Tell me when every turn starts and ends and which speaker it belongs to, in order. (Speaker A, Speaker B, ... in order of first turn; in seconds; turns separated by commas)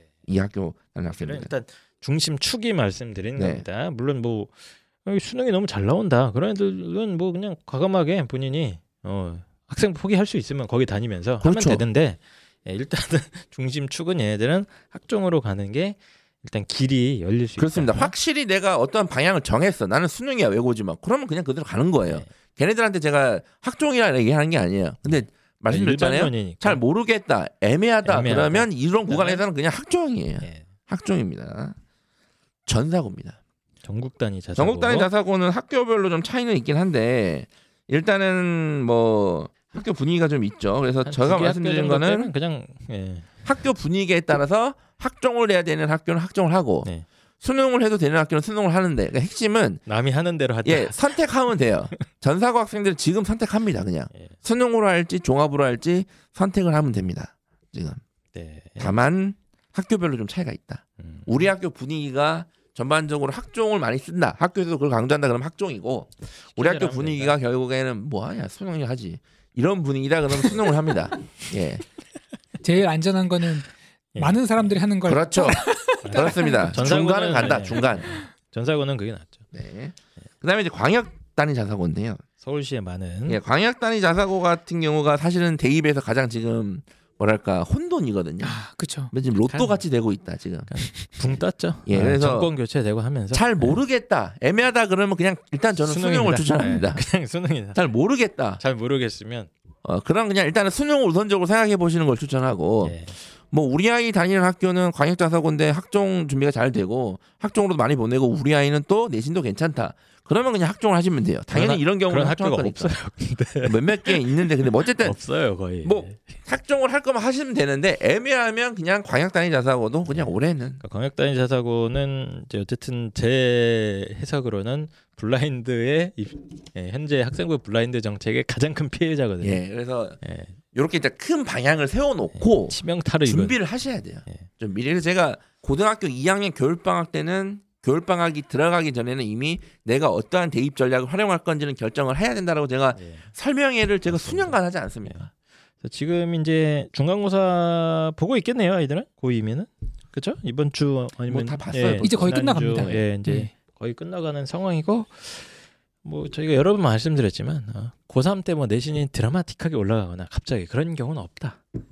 Speaker A: 0.3-1.5, Speaker B: 1.2-18.1, Speaker A: 3.4-3.7, Speaker A: 11.4-11.8, Speaker A: 17.6-31.8, Speaker B: 25.1-26.8, Speaker B: 28.0-29.4, Speaker B: 30.4-30.7, Speaker A: 32.6-33.4, Speaker B: 33.8-35.1, Speaker A: 34.5-42.3, Speaker B: 41.0-43.5, Speaker A: 43.4-46.9, Speaker A: 47.4-49.8, Speaker B: 49.9-51.3, Speaker A: 50.6-58.0, Speaker B: 58.3-58.9, Speaker A: 58.8-71.8, Speaker B: 61.0-61.4, Speaker B: 66.5-67.3, Speaker C: 72.6-76.7, Speaker B: 74.1-74.8, Speaker A: 75.0-78.2, Speaker B: 76.0-79.4, Speaker A: 79.5-82.2, Speaker B: 82.4-83.4, Speaker A: 83.3-88.6, Speaker C: 88.4-89.1, Speaker A: 89.1-90.7, Speaker B: 89.5-89.8, Speaker B: 90.7-93.8, Speaker A: 91.2-92.5, Speaker A: 93.3-97.0, Speaker B: 95.8-97.8, Speaker A: 97.7-98.6, Speaker B: 98.6-99.5, Speaker A: 99.8-113.0, Speaker B: 102.8-103.2, Speaker B: 111.5-116.4, Speaker A: 113.6-115.2, Speaker A: 115.8-120.8, Speaker B: 120.1-129.6, Speaker A: 129.4-130.2, Speaker B: 130.2-130.6, Speaker A: 130.7-145.3, Speaker B: 132.3-133.6, Speaker B: 142.9-143.3, Speaker B: 144.1-145.2, Speaker B: 145.8-161.6, Speaker A: 151.3-153.0, Speaker C: 152.0-153.5